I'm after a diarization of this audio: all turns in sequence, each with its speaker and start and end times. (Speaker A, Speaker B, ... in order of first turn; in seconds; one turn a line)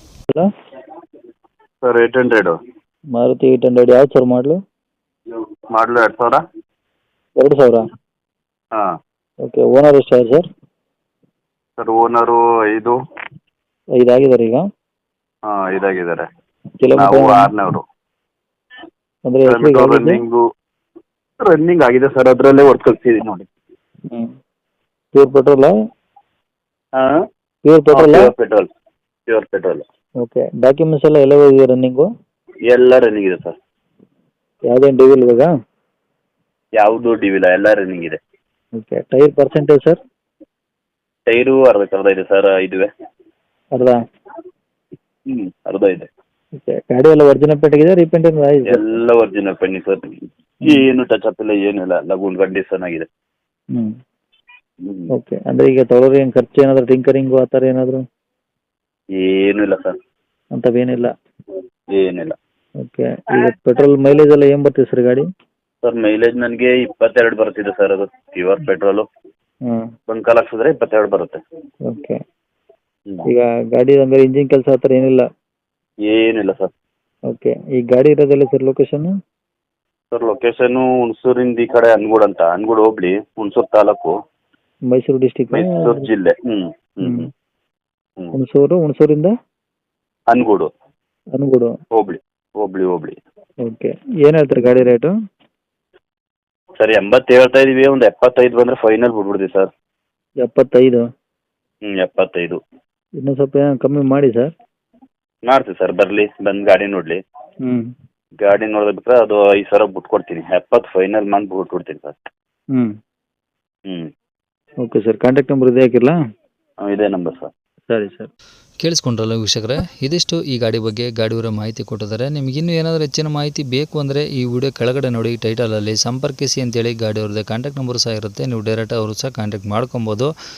Speaker A: 1.8-2.5
Speaker B: 3.1-4.6
Speaker A: 5.7-6.4
Speaker B: 7.4-7.8
Speaker B: 9.5-10.4
Speaker A: 11.8-13.0
Speaker B: 14.0-14.6
Speaker A: 15.5-16.3
Speaker B: 16.8-17.5
Speaker A: 16.9-17.8
Speaker B: 19.3-20.2
Speaker A: 19.5-20.4
Speaker A: 21.4-23.5
Speaker B: 25.1-25.7
Speaker B: 27.6-28.3
Speaker A: 27.9-28.7
Speaker A: 29.3-29.8
Speaker B: 30.2-32.1
Speaker A: 32.7-33.5
Speaker B: 34.7-35.5
Speaker A: 36.8-38.2
Speaker B: 38.8-40.0
Speaker A: 41.3-42.9
Speaker A: 45.3-46.1
Speaker B: 46.6-48.8
Speaker A: 48.7-53.1
Speaker A: 54.8-55.1
Speaker B: 55.1-58.0
Speaker A: 59.1-59.9
Speaker B: 60.6-61.1
Speaker A: 61.9-62.4
Speaker B: 62.8-65.2
Speaker A: 65.8-69.1
Speaker B: 69.7-69.9
Speaker A: 70.1-71.4
Speaker B: 71.9-72.2
Speaker B: 73.2-75.2
Speaker A: 76.1-76.7
Speaker B: 77.3-79.1
Speaker A: 80.1-84.1
Speaker B: 84.9-86.0
Speaker A: 85.5-87.3
Speaker B: 87.0-87.3
Speaker B: 88.3-89.3
Speaker A: 90.3-90.7
Speaker B: 91.3-91.7
Speaker A: 92.0-93.2
Speaker B: 93.6-95.1
Speaker A: 96.8-99.7
Speaker B: 100.4-101.0
Speaker A: 101.9-102.6
Speaker B: 103.2-104.5
Speaker A: 105.5-107.2
Speaker A: 108.4-112.2
Speaker B: 114.8-116.1
Speaker A: 116.8-117.5
Speaker B: 117.9-118.3
Speaker C: 118.8-130.3